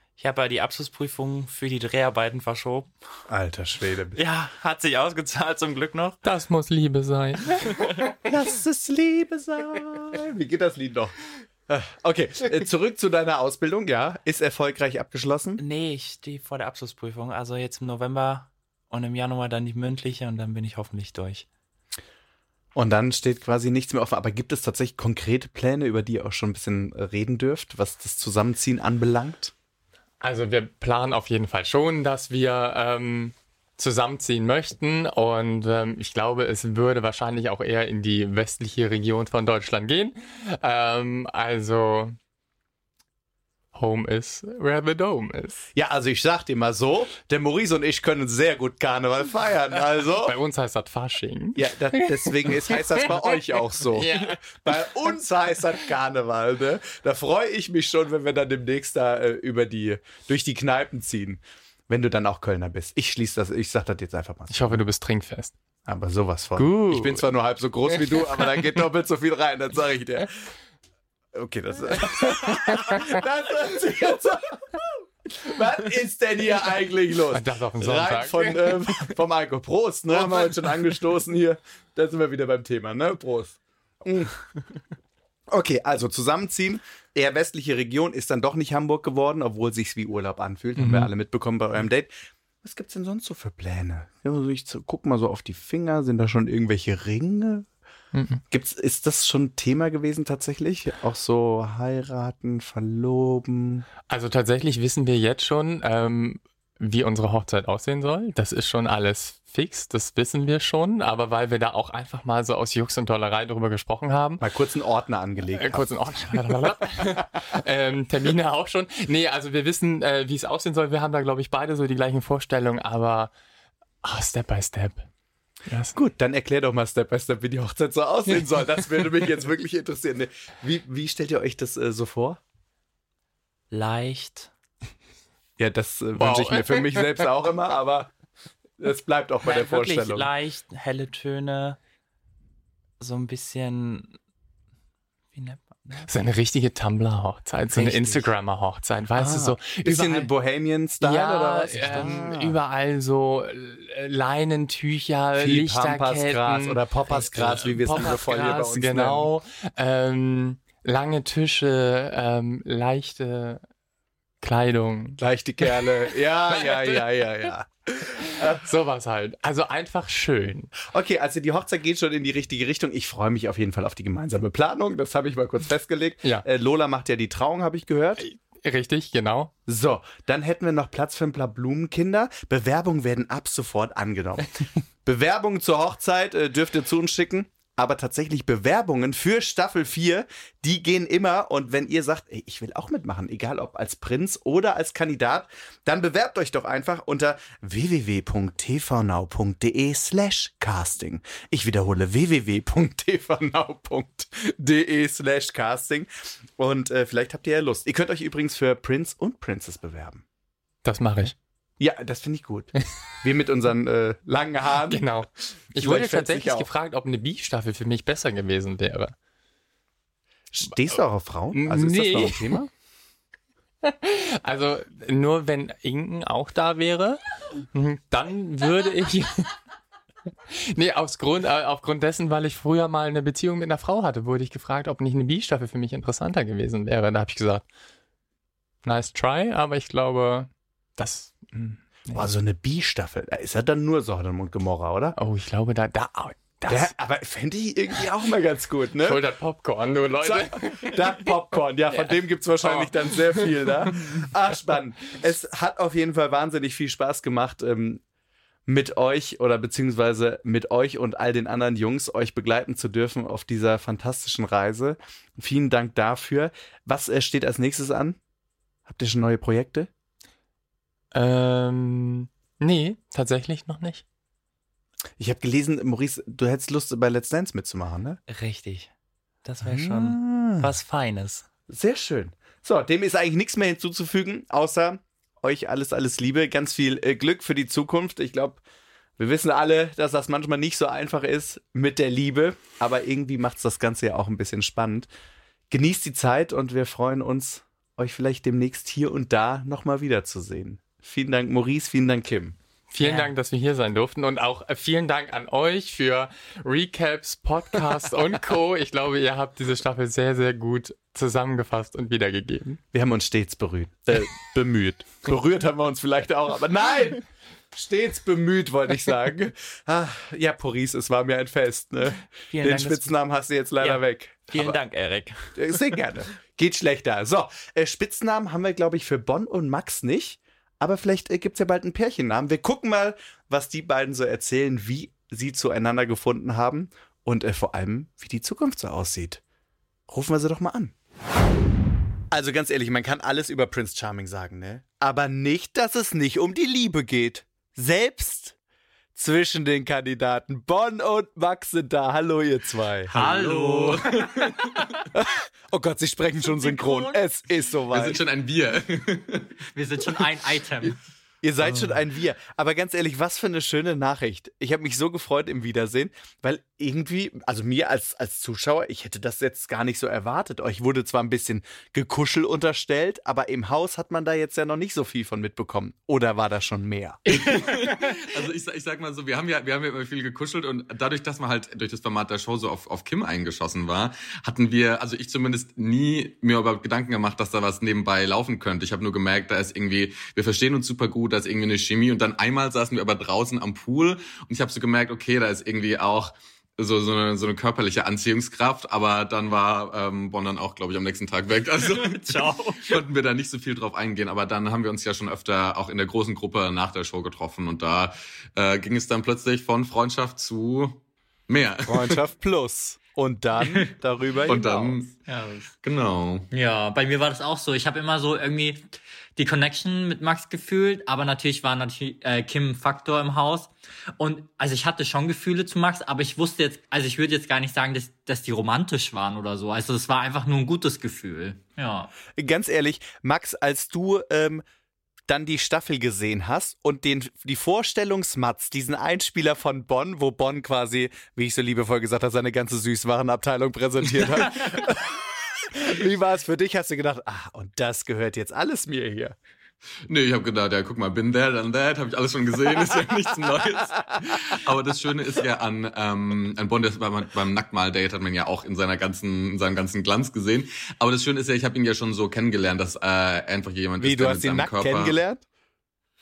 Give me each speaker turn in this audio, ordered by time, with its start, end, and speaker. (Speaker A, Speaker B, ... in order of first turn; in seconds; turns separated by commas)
Speaker A: 0.2-2.9, Speaker B: 3.3-4.2, Speaker A: 4.2-6.2, Speaker C: 6.2-7.9, Speaker B: 8.3-11.2, Speaker B: 11.7-15.6, Speaker A: 15.6-21.5, Speaker B: 22.8-29.5, Speaker C: 30.2-42.2, Speaker C: 43.7-45.7, Speaker B: 45.8-50.4, Speaker C: 50.2-53.1, Speaker B: 51.6-64.8, Speaker C: 53.9-54.6, Speaker C: 64.5-65.5, Speaker B: 65.9-70.3, Speaker C: 66.6-67.3, Speaker B: 71.3-84.3, Speaker C: 72.3-73.2, Speaker C: 77.3-79.1, Speaker B: 85.5-92.1, Speaker C: 90.8-91.1, Speaker B: 92.6-97.7, Speaker C: 98.1-98.4, Speaker B: 98.5-103.9, Speaker C: 104.1-114.5, Speaker B: 114.4-116.4, Speaker C: 115.6-123.3, Speaker C: 124.0-125.1, Speaker C: 125.7-126.0, Speaker B: 125.9-132.4, Speaker A: 133.7-134.5, Speaker B: 135.6-138.1, Speaker C: 136.2-137.1, Speaker B: 138.8-140.3, Speaker A: 139.4-141.8, Speaker A: 143.0-144.2, Speaker A: 145.3-146.1, Speaker C: 146.1-150.3, Speaker A: 147.7-148.2, Speaker B: 149.2-152.6, Speaker C: 151.0-163.6, Speaker B: 155.4-159.3, Speaker C: 164.4-165.2, Speaker B: 165.2-168.6, Speaker C: 166.5-167.0, Speaker C: 168.3-170.7, Speaker B: 170.8-178.2, Speaker C: 178.2-179.5, Speaker B: 179.7-184.5, Speaker B: 185.0-210.2, Speaker C: 210.8-211.3, Speaker B: 211.8-215.1, Speaker C: 214.9-219.2, Speaker B: 215.8-216.7, Speaker B: 220.5-222.7, Speaker C: 221.5-222.6, Speaker C: 223.8-229.5, Speaker C: 230.5-237.7, Speaker C: 238.8-242.3, Speaker B: 242.1-245.2, Speaker C: 245.2-246.9, Speaker B: 246.7-249.2, Speaker C: 249.0-251.3, Speaker B: 250.2-258.0, Speaker C: 251.9-253.7, Speaker B: 258.7-268.2, Speaker B: 268.9-269.9, Speaker C: 271.1-274.0, Speaker B: 275.2-278.2, Speaker A: 278.3-278.9, Speaker A: 279.4-281.4, Speaker B: 279.6-280.7, Speaker B: 281.7-288.6, Speaker B: 289.2-295.1, Speaker B: 295.7-302.6, Speaker C: 302.9-312.8, Speaker B: 312.9-324.8, Speaker A: 322.5-323.1, Speaker A: 323.8-325.5, Speaker B: 325.6-339.4, Speaker B: 340.1-340.9, Speaker B: 342.3-348.6, Speaker B: 349.1-353.1, Speaker D: 353.1-354.6, Speaker E: 353.1-354.9, Speaker B: 355.1-358.2, Speaker E: 357.9-359.5, Speaker D: 359.8-361.0, Speaker E: 360.1-360.9, Speaker B: 361.4-377.2, Speaker D: 377.3-378.3, Speaker E: 377.3-412.2, Speaker D: 401.8-403.0, Speaker B: 411.9-415.0, Speaker D: 413.6-413.9, Speaker E: 414.5-415.2, Speaker D: 414.5-415.7, Speaker E: 415.8-416.5, Speaker D: 416.5-432.1, Speaker B: 432.3-434.6, Speaker B: 435.3-449.4, Speaker E: 450.1-465.2, Speaker B: 464.0-465.4